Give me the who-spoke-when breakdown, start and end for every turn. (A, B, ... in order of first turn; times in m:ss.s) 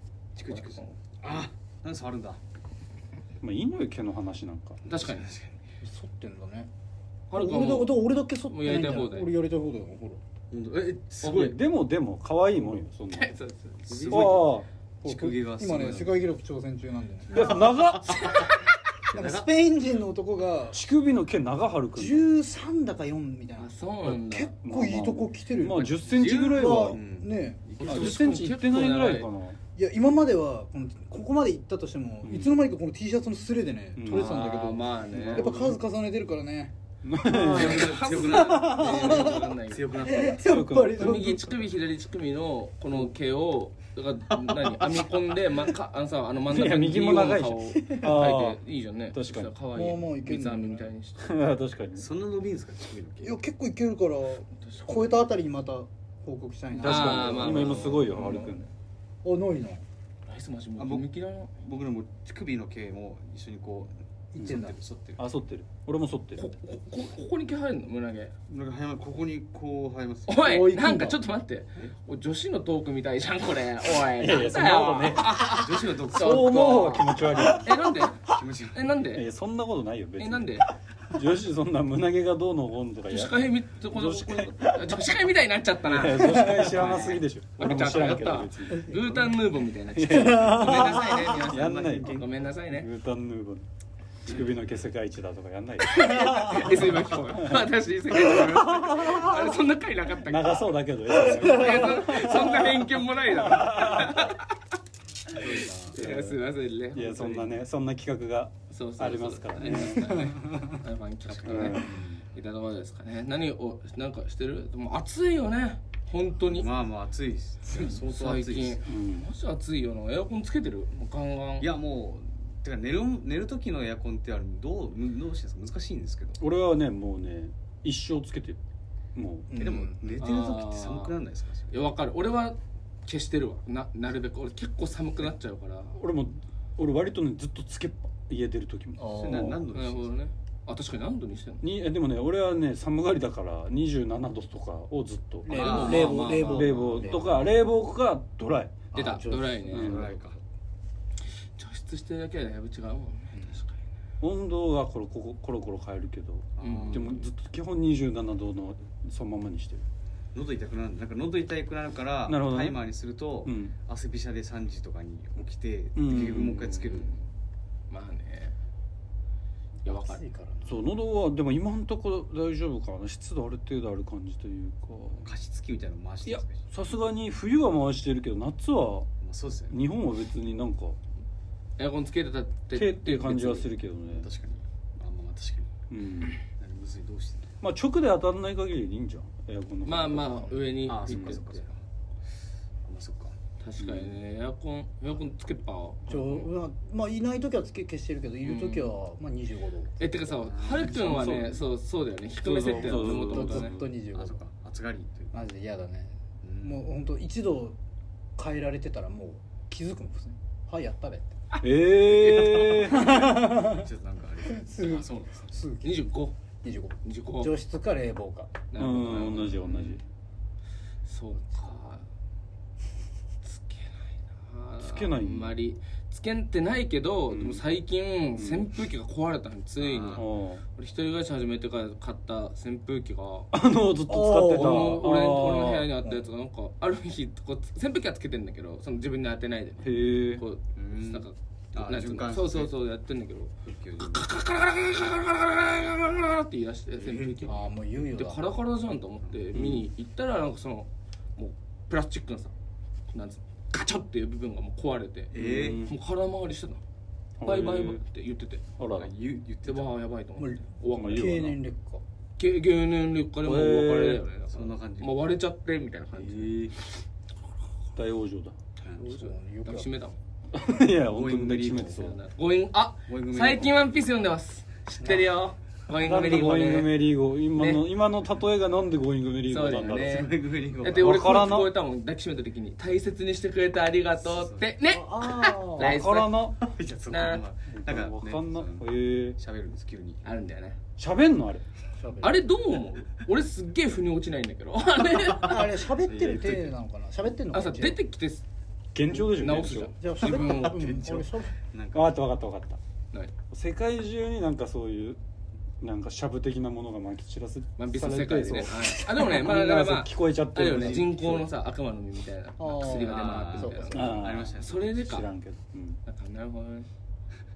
0:00.4-0:02.4 A
0:00.5-0:01.0 B
0:03.4-0:04.8 C
0:04.8-0:05.3 B
0:04.9-0:05.6 A
0:05.8-0:06.7 D
0:07.3-0:09.3 B
0:07.3-0:10.2 D
0:10.5-0:11.6 A
0:11.2-0:13.3 C
0:11.3-0:11.5 B
0:13.1-0:14.5 B
0:13.9-0:16.2 A
0:14.1-0:14.7 C
0:15.0-0:18.5 D
0:17.3-0:18.4 C
0:17.4-0:18.5 A
0:18.2-0:18.7 B
0:19.1-0:19.5 A
0:19.1-0:20.8 D
0:20.7-0:22.3 C
0:22.0-0:27.6 D
0:23.6-0:24.5 B
0:24.6-0:27.0 C
0:25.6-0:28.4 A
0:27.8-0:29.3 B
0:27.8-0:29.6 C
0:29.8-0:39.5 D
0:32.2-0:32.6 C
0:34.0-0:34.4 C
0:34.1-0:35.5 B
0:35.2-0:35.8 A
0:37.0-0:38.0 C
0:37.4-0:40.4 A
0:37.4-0:40.3 B
0:40.0-0:41.4 D
0:40.4-0:41.6 C
0:40.9-0:51.3 B
0:44.3-0:45.2 A
0:46.5-0:48.6 C
0:49.1-0:49.5 C
0:49.7-0:50.9 D
0:51.2-0:52.1 C
0:52.0-0:53.4 A
0:53.2-0:57.9 D
0:54.7-0:54.9 B
0:56.7-0:58.6 C
0:56.8-0:58.7 B
0:59.2-0:59.8 D
1:00.3-1:01.5 B
1:00.8-1:05.2 A
1:04.3-1:04.8 D
1:05.2-1:06.5 C
1:06.4-1:08.3 B
1:08.5-1:10.4 A
1:10.3-1:19.2 B
1:10.4-1:11.2 D
1:14.2-1:15.4 C
1:15.3-1:16.6 A
1:16.1-1:18.1 C
1:18.3-1:18.9 A
1:19.1-1:25.0 C
1:20.2-1:20.7 B
1:23.1-1:32.9 B
1:25.8-1:29.1 C
1:26.7-1:27.2 A
1:29.9-1:30.8 C
1:30.1-1:31.3 D
1:30.7-1:32.4 A
1:31.4-1:33.7 C
1:34.3-1:37.6 C
1:34.3-1:34.8 A
1:35.8-1:44.6 B
1:40.2-1:44.3 C
1:45.3-1:46.0 A
1:45.4-1:47.5 B
1:45.9-1:46.4 C
1:46.9-1:50.5 C
1:48.7-1:56.7 B
1:51.3-1:52.2 A
1:51.4-1:52.0 C
1:56.4-1:58.8 A
1:57.7-2:01.7 B
1:58.9-1:59.3 C
2:01.6-2:06.4 A
2:06.4-2:08.6 C
2:09.2-2:09.5 C
2:09.5-2:10.1 D
2:09.6-2:11.9 A
2:10.2-2:11.2 B
2:11.7-2:16.0 B
2:16.0-2:19.6 C
2:19.0-2:19.6 D
2:19.1-2:20.1 A
2:19.7-2:21.6 B
2:21.6-2:28.9 C
2:25.4-2:27.5 D
2:25.5-2:26.4 A
2:25.5-2:27.2 B
2:28.9-2:29.9 D
2:28.9-2:30.1 B
2:29.7-2:30.1 C
2:29.7-2:30.4 A
2:31.6-2:33.8 B
2:34.2-2:39.9 C
2:36.6-2:37.1 A
2:36.6-2:37.2 B
2:40.3-2:47.1 A
2:42.3-2:42.8 C
2:43.4-2:43.8 C
2:46.0-2:46.6 C
2:46.1-2:47.3 B
2:47.9-2:48.6 B
2:49.8-2:50.2 B
2:49.9-2:50.8 D
2:50.7-2:55.3 C
2:55.2-2:56.6 A
2:56.2-2:59.1 C
2:59.2-2:59.8 A
2:59.7-3:01.0 C
3:01.8-3:03.7 B
3:02.7-3:04.3 C
3:04.1-3:05.7 A
3:05.9-3:06.4 C
3:06.6-3:07.6 A
3:07.6-3:11.4 C
3:09.8-3:11.6 B
3:10.8-3:11.8 A
3:12.8-3:13.4 A
3:13.6-3:16.5 B
3:13.8-3:14.1 C
3:16.1-3:20.1 D
3:18.4-3:18.9 B
3:20.0-3:23.7 B
3:20.4-3:21.4 A
3:20.9-3:21.6 C
3:22.4-3:23.9 C
3:22.7-3:24.4 D
3:24.1-3:25.5 A
3:25.3-3:27.8 D
3:26.4-3:26.9 A
3:28.4-3:31.4 D
3:31.5-3:32.8 B
3:31.6-3:33.4 C
3:32.7-3:35.6 A
3:32.7-3:33.9 D
3:34.5-3:36.0 D
3:35.8-3:36.4 B
3:36.6-3:38.6 D
3:37.0-3:37.5 B
3:38.7-3:40.0 B
3:38.8-3:40.0 C
3:39.1-3:39.8 A
3:41.0-3:42.0 B
3:43.4-3:53.5 B
3:44.8-3:45.5 C
3:47.3-3:47.6 C
3:48.4-3:48.7 C
3:49.8-3:50.2 A
3:50.1-3:50.6 C
3:53.5-3:55.9 C
3:54.1-3:55.1 D
3:54.5-4:12.5 B
3:59.8-4:00.4 C
4:00.8-4:02.7 A
4:03.6-4:04.3 A
4:07.0-4:07.6 A
4:07.5-4:08.4 D
4:09.3-4:09.6 A
4:09.5-4:09.9 C
4:13.1-4:16.8 B
4:15.3-4:15.8 A
4:15.4-4:16.0 C
4:17.4-4:18.0 C
4:17.4-4:18.6 B
4:18.8-4:19.1 C
4:19.0-4:20.0 A
4:19.7-4:21.6 B
4:20.4-4:22.0 D
4:21.0-4:21.5 C
4:22.4-4:26.6 B
4:23.4-4:24.2 C
4:24.5-4:25.3 A
4:26.1-4:26.8 A
4:28.0-4:28.6 C
4:28.9-4:30.2 B
4:29.0-4:29.9 D
4:30.5-4:32.2 C
4:30.8-4:32.2 A
4:32.0-4:36.9 B
4:33.1-4:33.9 A
4:36.0-4:40.2 C
4:37.6-4:37.9 B
4:39.5-4:46.4 B
4:40.0-4:41.4 A
4:40.8-4:41.7 C
4:44.2-4:44.7 A
4:44.9-4:46.0 D
4:45.8-4:46.7 C
4:46.6-4:50.2 A
4:47.1-4:47.4 B
4:47.7-4:49.4 C
4:50.2-4:50.8 B
4:51.0-4:51.7 C
4:52.0-4:52.4 D
4:52.2-4:55.6 B
4:55.2-4:56.7 A
4:55.4-4:58.0 D
4:57.5-4:58.4 B
4:58.9-4:59.9 C
4:59.1-5:00.9 B
5:00.0-5:01.6 D
5:00.2-5:02.2 A
5:01.9-5:02.8 C
5:03.5-5:05.2 C
5:05.8-5:11.4 C
5:07.8-5:15.3 B
5:10.7-5:11.4 A
5:12.6-5:14.4 D
5:12.9-5:14.9 A
5:13.9-5:16.0 C
5:16.0-5:16.9 B